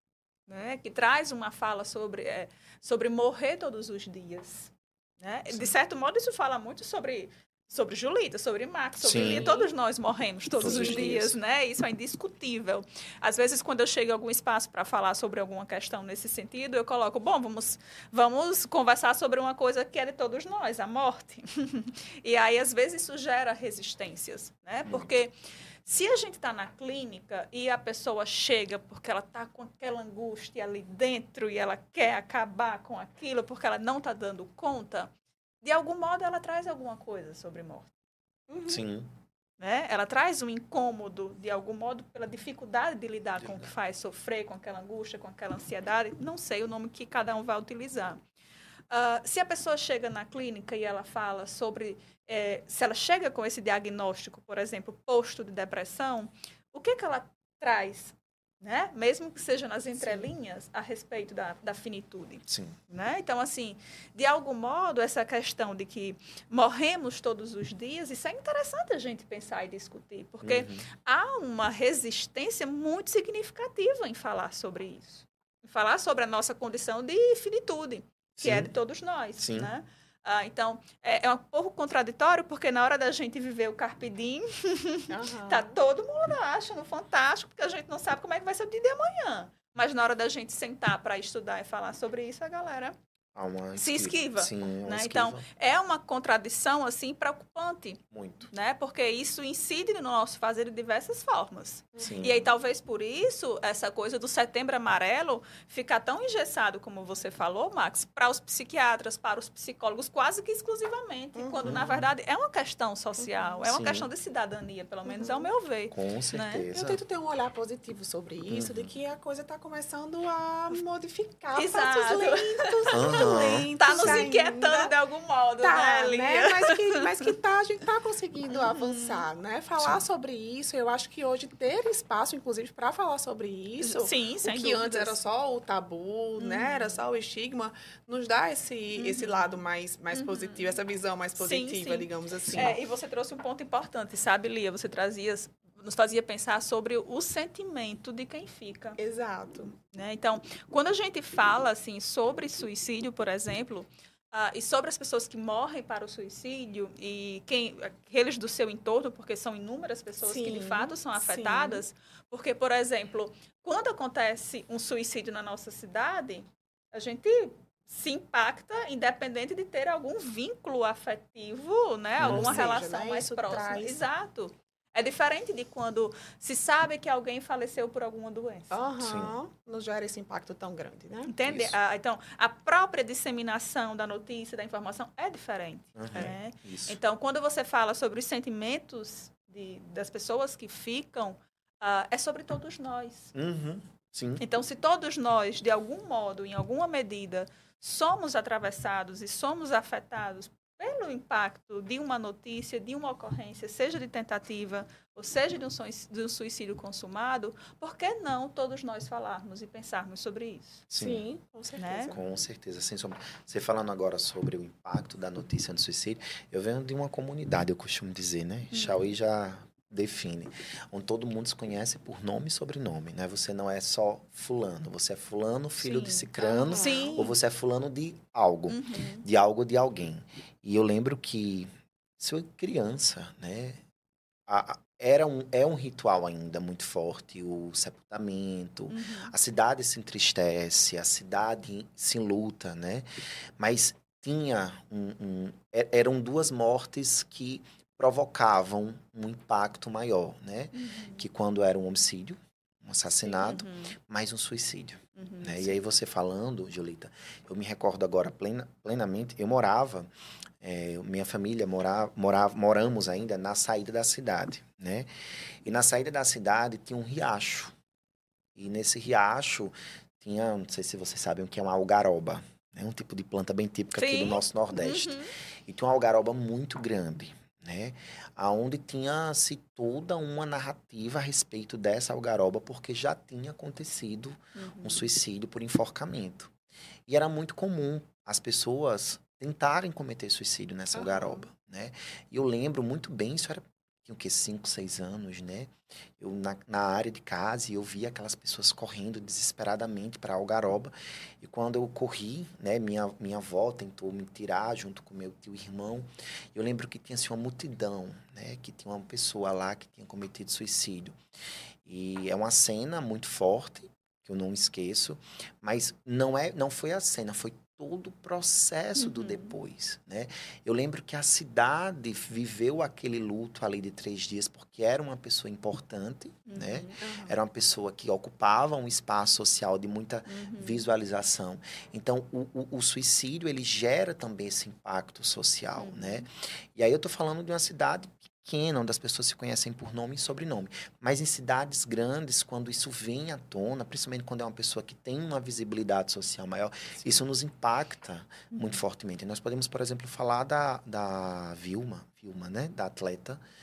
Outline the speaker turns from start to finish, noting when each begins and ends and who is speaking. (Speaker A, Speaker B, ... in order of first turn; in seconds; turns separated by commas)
Speaker A: 0.5-25.3, Speaker B: 5.5-5.8, Speaker B: 9.0-9.5, Speaker C: 9.1-9.7, Speaker C: 10.6-11.1, Speaker B: 10.6-11.4, Speaker B: 24.9-25.1, Speaker A: 25.9-35.1, Speaker A: 35.6-37.9, Speaker C: 38.5-38.9, Speaker B: 38.7-39.1, Speaker A: 39.6-48.2, Speaker B: 43.4-43.7, Speaker A: 48.9-93.0, Speaker C: 60.0-60.3, Speaker B: 62.5-62.8, Speaker B: 70.4-70.9, Speaker B: 78.4-78.7, Speaker B: 79.4-79.7, Speaker C: 85.1-85.6, Speaker B: 93.3-95.4, Speaker A: 93.8-116.7, Speaker B: 98.1-98.5, Speaker B: 102.0-102.5, Speaker C: 111.3-111.8, Speaker B: 111.6-112.1, Speaker C: 113.2-113.6, Speaker B: 113.7-114.1, Speaker C: 115.1-115.5, Speaker B: 115.9-117.0, Speaker C: 116.7-124.9, Speaker B: 118.5-118.9, Speaker A: 121.5-127.3, Speaker B: 122.9-124.3, Speaker C: 125.6-142.8, Speaker A: 128.5-129.3, Speaker B: 129.8-130.0, Speaker A: 133.8-135.2, Speaker A: 136.4-137.0, Speaker A: 139.0-139.5, Speaker A: 140.1-140.8, Speaker A: 141.4-149.0, Speaker C: 149.0-149.8, Speaker A: 149.9-178.8, Speaker C: 160.2-161.8, Speaker B: 172.2-172.7, Speaker C: 172.2-174.1, Speaker C: 178.7-181.3, Speaker B: 179.0-179.3, Speaker A: 181.3-193.3, Speaker B: 181.4-181.8, Speaker B: 186.0-187.0, Speaker B: 193.3-194.4, Speaker A: 194.4-210.8, Speaker B: 210.9-211.2, Speaker C: 211.0-212.3, Speaker A: 211.8-212.2, Speaker B: 212.1-233.8, Speaker A: 218.7-219.1, Speaker A: 225.8-227.4, Speaker C: 226.4-227.2, Speaker A: 228.7-229.2, Speaker B: 234.5-265.1, Speaker A: 238.9-239.3, Speaker A: 250.7-251.3, Speaker A: 253.2-254.0, Speaker A: 255.2-255.8, Speaker B: 265.6-267.8, Speaker B: 268.6-286.5, Speaker A: 273.9-275.3, Speaker A: 284.6-285.1, Speaker B: 287.1-311.2, Speaker C: 290.9-291.5, Speaker B: 311.8-353.4, Speaker A: 319.0-319.6, Speaker A: 326.5-327.3, Speaker C: 327.0-327.3, Speaker A: 330.3-330.8, Speaker A: 335.8-336.3, Speaker A: 348.5-348.8